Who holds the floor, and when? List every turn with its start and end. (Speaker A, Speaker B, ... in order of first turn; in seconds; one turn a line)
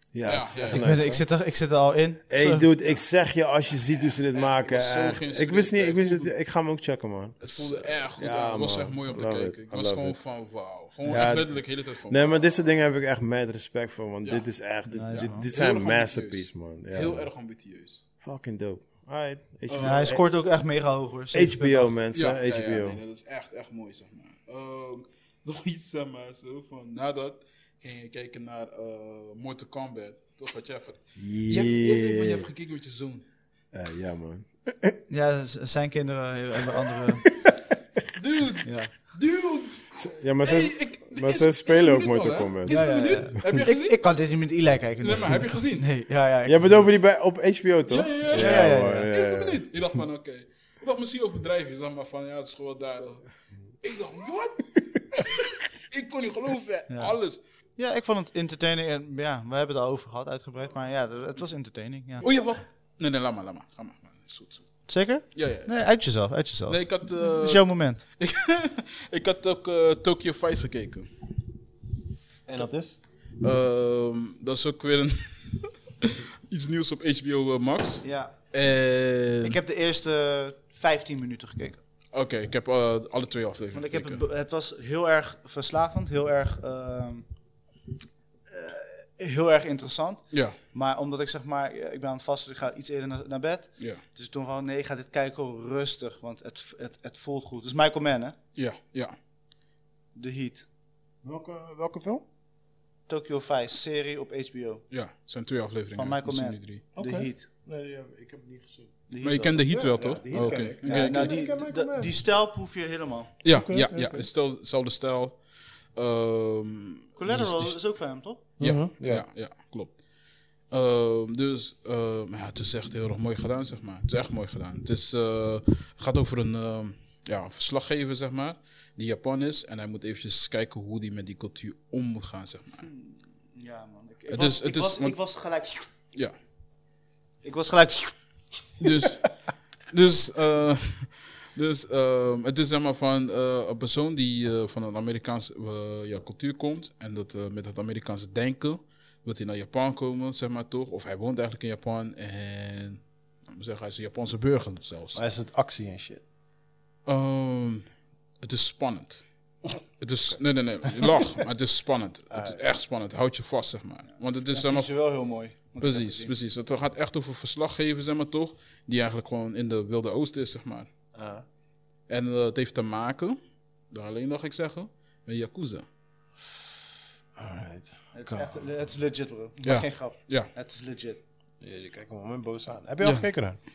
Speaker A: 0.1-1.2
Speaker B: 0.2-1.0
Speaker C: 0.6-2.7
Speaker A: 2.3-10.2
Speaker B: 4.3-6.3
Speaker B: 7.4-12.4
Speaker C: 11.0-11.3
Speaker A: 11.1-17.3
Speaker C: 14.9-15.5
Speaker B: 15.1-18.0
Speaker A: 18.2-20.2
Speaker B: 19.7-20.1
Speaker C: 19.8-21.9
Speaker A: 21.3-23.0
Speaker B: 22.1-33.2
Speaker A: 31.1-32.5
Speaker A: 33.7-35.0
Speaker C: 35.1-37.2
Speaker A: 36.9-37.5
Speaker B: 38.1-44.0
Speaker C: 38.6-38.9
Speaker A: 40.0-43.6
Speaker C: 42.7-46.8
Speaker B: 45.0-45.9
Speaker A: 46.5-49.6
Speaker B: 47.9-53.2
Speaker C: 48.3-49.1
Speaker B: 53.8-57.4
Speaker C: 56.9-57.1
Speaker C: 57.8-62.2
Speaker B: 62.2-64.8
Speaker C: 64.9-68.0
Speaker B: 65.3-65.7
Speaker B: 66.7-71.1
Speaker A: 72.5-73.0
Speaker B: 73.4-79.6
Speaker C: 78.0-78.3
Speaker C: 79.4-81.8
Speaker B: 82.1-84.2
Speaker C: 83.7-87.3
Speaker C: 88.5-98.3
Speaker B: 90.3-90.6
Speaker B: 98.5-99.2
Speaker C: 100.1-100.7
Speaker A: 101.2-102.2
Speaker C: 103.1-104.8
Speaker B: 104.9-106.8
Speaker C: 105.9-107.5
Speaker A: 106.9-108.9
Speaker C: 109.1-113.3
Speaker B: 109.2-111.4
Speaker A: 109.7-112.1
Speaker B: 113.4-115.4
Speaker A: 113.5-114.3
Speaker B: 115.9-117.8
Speaker C: 117.2-118.4
Speaker A: 118.6-119.2
Speaker B: 118.6-120.0
Speaker B: 120.7-132.9
Speaker C: 132.8-135.9
Speaker B: 134.3-135.2
Speaker C: 137.4-138.2
Speaker B: 138.8-139.3
Speaker B: 139.9-155.2
Speaker A: 155.1-156.2
Speaker B: 157.1-157.9
Speaker B: 158.4-159.2
Speaker B: 159.8-164.9
Speaker A: 162.3-162.6
Speaker C: 164.5-166.3
Speaker B: 165.8-170.9
Speaker A: 171.1-171.4
Speaker B: 172.1-173.4
Speaker B: 173.9-175.8
Speaker A: 177.3-178.6
Speaker C: 178.1-181.2
Speaker B: 179.6-180.5
Speaker A: 181.6-183.6
Speaker B: 183.0-183.3